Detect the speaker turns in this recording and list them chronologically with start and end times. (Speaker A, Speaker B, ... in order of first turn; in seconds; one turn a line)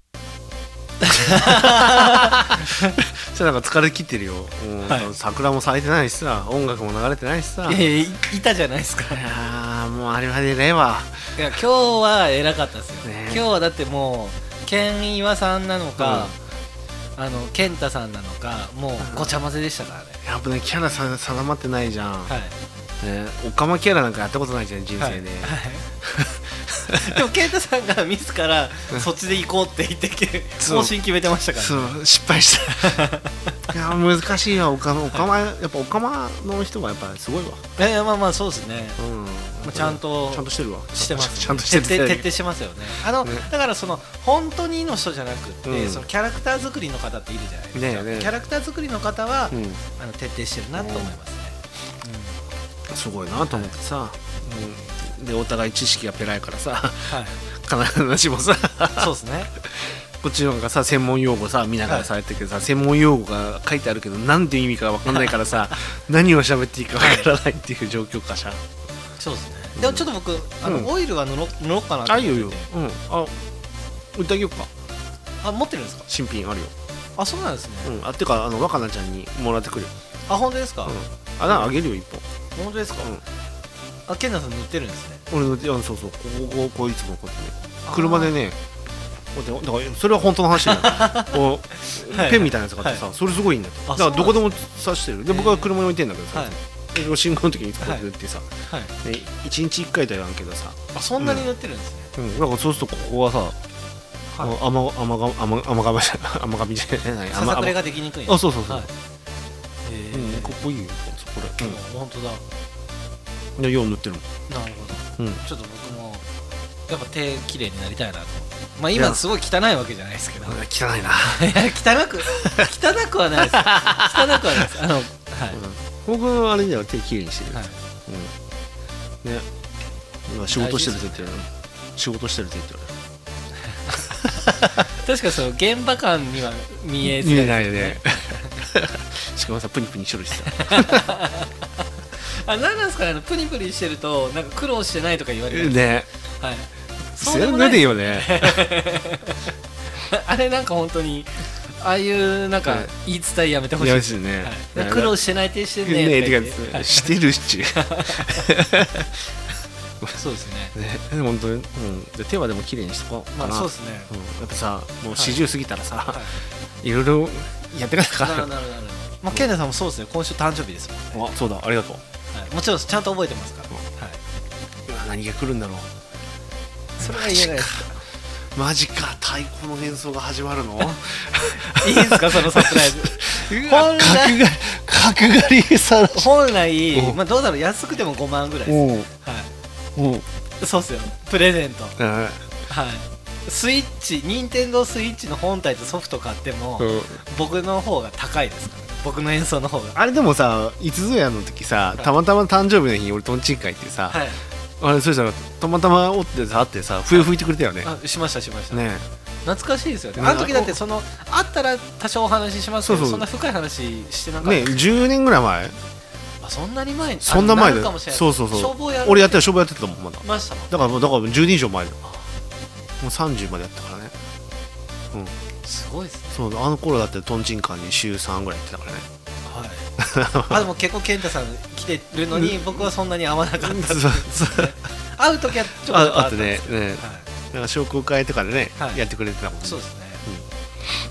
Speaker A: 1.0-2.9
Speaker B: 1.3-7.8
Speaker A: 7.7-9.2
Speaker B: 9.1-11.3
Speaker A: 11.3-16.4
Speaker B: 13.0-13.4
Speaker B: 16.0-16.3
Speaker A: 17.1-20.2
Speaker B: 19.0-19.3
Speaker B: 20.2-22.3
Speaker A: 22.3-22.5
Speaker B: 23.0-27.2
Speaker A: 25.0-25.8
Speaker A: 26.9-32.0
Speaker B: 30.6-30.9
Speaker B: 31.5-33.0
Speaker A: 32.8-33.4
Speaker B: 33.7-37.6
Speaker A: 37.8-39.0
Speaker B: 39.0-42.3
Speaker A: 39.6-52.4
Speaker B: 43.2-43.5
Speaker B: 45.6-46.0
Speaker B: 47.7-48.3
Speaker B: 49.5-49.8
Speaker B: 50.8-51.1
Speaker B: 52.9-59.1
Speaker A: 53.4-53.8
Speaker A: 57.1-57.3
Speaker A: 59.0-59.5
Speaker B: 59.7-68.6
Speaker A: 67.0-67.3
Speaker A: 69.2-72.7
Speaker B: 69.8-70.1
Speaker B: 70.6-70.9
Speaker B: 72.0-73.4
Speaker B: 74.1-74.7
Speaker A: 75.4-76.1
Speaker B: 76.1-76.7
Speaker A: 77.2-78.0
Speaker B: 77.8-79.9
Speaker A: 80.3-81.7
Speaker B: 80.9-82.2
Speaker A: 82.5-83.2
Speaker A: 84.1-85.2
Speaker B: 85.3-88.6
Speaker A: 87.8-88.3
Speaker B: 89.3-98.5
Speaker A: 90.6-93.0
Speaker A: 93.9-94.6
Speaker A: 95.3-95.7
Speaker A: 98.7-98.9
Speaker B: 99.0-101.5
Speaker A: 100.9-102.1
Speaker B: 102.2-103.6
Speaker B: 104.4-108.9
Speaker A: 107.3-108.9
Speaker A: 109.8-110.6
Speaker B: 110.1-111.8
Speaker A: 111.6-112.4
Speaker B: 113.6-114.2
Speaker A: 114.5-116.2
Speaker A: 116.9-120.6
Speaker B: 118.9-119.2
Speaker B: 120.4-121.6
Speaker A: 121.2-125.6
Speaker B: 123.4-124.7
Speaker B: 125.5-128.3
Speaker B: 130.3-132.9
Speaker A: 130.5-131.3
Speaker A: 134.9-138.5
Speaker B: 137.0-141.1
Speaker A: 140.5-141.5
Speaker A: 142.2-145.9
Speaker B: 145.5-146.1
Speaker A: 146.4-149.4
Speaker B: 147.2-148.6
Speaker A: 150.0-157.1
Speaker B: 152.7-152.9
Speaker B: 153.8-155.2
Speaker B: 155.8-159.1
Speaker A: 157.7-158.4
Speaker A: 160.1-160.7
Speaker B: 160.7-166.2
Speaker A: 163.3-164.1
Speaker A: 165.1-165.4
Speaker A: 166.1-166.4
Speaker B: 166.8-168.5
Speaker A: 168.2-171.3
Speaker B: 171.1-172.0
Speaker A: 172.3-174.2
Speaker B: 174.9-175.9
Speaker A: 177.0-178.0
Speaker B: 177.0-177.8
Speaker B: 178.5-186.3
Speaker A: 181.7-184.4
Speaker A: 186.1-189.5
Speaker B: 186.9-187.2
Speaker B: 188.7-189.1
Speaker B: 189.9-190.2
Speaker A: 190.6-192.0
Speaker B: 192.0-192.4
Speaker A: 192.7-200.0
Speaker B: 196.8-197.2
Speaker B: 199.9-204.2
Speaker A: 204.1-204.4
Speaker B: 204.8-207.9
Speaker A: 207.8-208.8
Speaker B: 208.7-209.0
Speaker A: 209.4-215.0
Speaker B: 210.2-210.8
Speaker B: 212.8-213.2
Speaker B: 214.4-215.8
Speaker A: 216.4-219.5
Speaker B: 217.2-222.0
Speaker A: 220.2-220.9
Speaker B: 223.0-224.1
Speaker A: 225.6-226.4
Speaker B: 226.3-229.1
Speaker A: 229.4-229.9
Speaker B: 230.0-230.7
Speaker A: 230.5-237.3
Speaker B: 232.3-232.8
Speaker B: 233.6-234.7
Speaker B: 235.8-240.4
Speaker A: 239.6-240.2